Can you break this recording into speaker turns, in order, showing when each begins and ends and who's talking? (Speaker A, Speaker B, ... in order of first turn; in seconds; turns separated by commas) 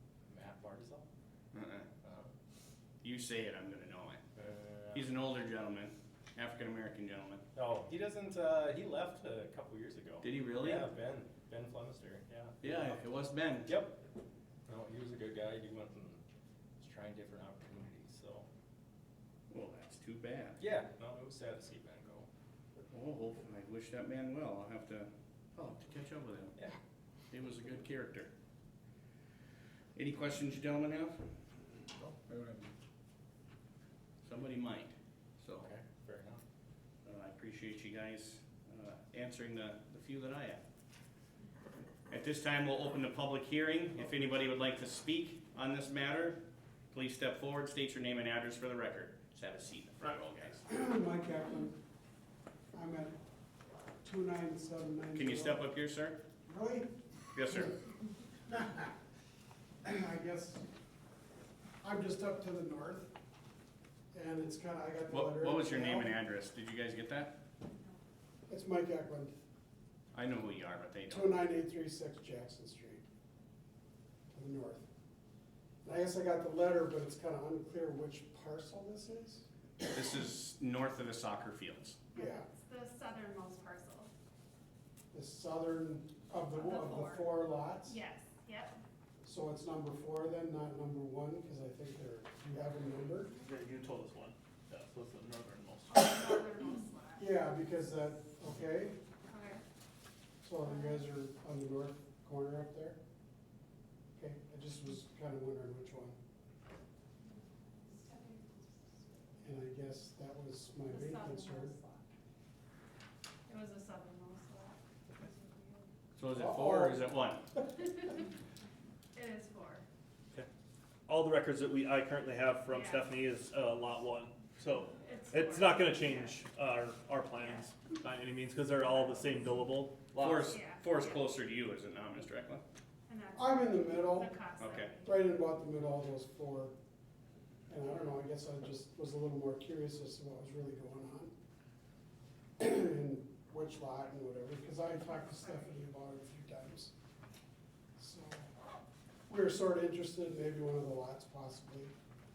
Speaker A: 0.3-1.1, Speaker B: 1.5-1.9, Speaker A: 2.0-2.3, Speaker B: 3.0-4.2, Speaker A: 4.4-5.0, Speaker B: 4.9-7.4, Speaker A: 7.5-13.0, Speaker B: 10.2-10.9, Speaker B: 12.6-13.7, Speaker A: 13.7-14.0, Speaker A: 14.7-16.2, Speaker A: 16.8-18.5, Speaker B: 19.5-20.7, Speaker A: 20.6-22.3, Speaker B: 22.9-26.6, Speaker B: 27.3-28.3, Speaker B: 30.0-31.2, Speaker B: 32.2-32.7, Speaker B: 34.2-35.7, Speaker A: 35.6-36.4, Speaker B: 37.0-40.6, Speaker B: 42.1-50.6, Speaker C: 50.6-51.8, Speaker C: 52.7-53.2, Speaker C: 54.0-55.7, Speaker B: 55.1-56.2, Speaker C: 56.5-57.0, Speaker B: 57.3-57.7, Speaker C: 58.5-58.9, Speaker C: 59.8-60.6, Speaker C: 61.8-63.1, Speaker C: 64.1-66.2, Speaker B: 65.1-67.4, Speaker C: 68.5-69.3, Speaker B: 70.1-71.4, Speaker C: 71.1-73.0, Speaker C: 74.3-74.9, Speaker C: 75.8-79.5, Speaker B: 79.9-82.0, Speaker D: 82.1-84.1, Speaker C: 82.2-82.5, Speaker C: 85.1-88.0, Speaker D: 86.4-88.8, Speaker C: 89.2-93.3, Speaker E: 93.4-96.1, Speaker D: 95.9-97.3, Speaker C: 97.2-99.0, Speaker D: 99.3-99.6, Speaker C: 100.4-103.0, Speaker D: 100.6-101.1, Speaker C: 104.2-106.2, Speaker D: 107.3-109.4, Speaker C: 109.4-111.8, Speaker D: 110.8-112.1, Speaker D: 113.5-115.9, Speaker B: 116.2-117.5, Speaker C: 116.3-117.1, Speaker D: 117.8-118.2, Speaker D: 119.1-119.8, Speaker E: 121.1-130.6, Speaker D: 122.7-123.1, Speaker D: 124.9-126.4, Speaker B: 130.2-132.6, Speaker D: 130.4-131.3, Speaker D: 133.1-135.2, Speaker C: 133.4-134.3, Speaker B: 134.6-134.9, Speaker C: 135.1-136.7, Speaker C: 137.7-141.3, Speaker C: 142.6-146.9, Speaker C: 148.0-148.5, Speaker C: 149.3-151.9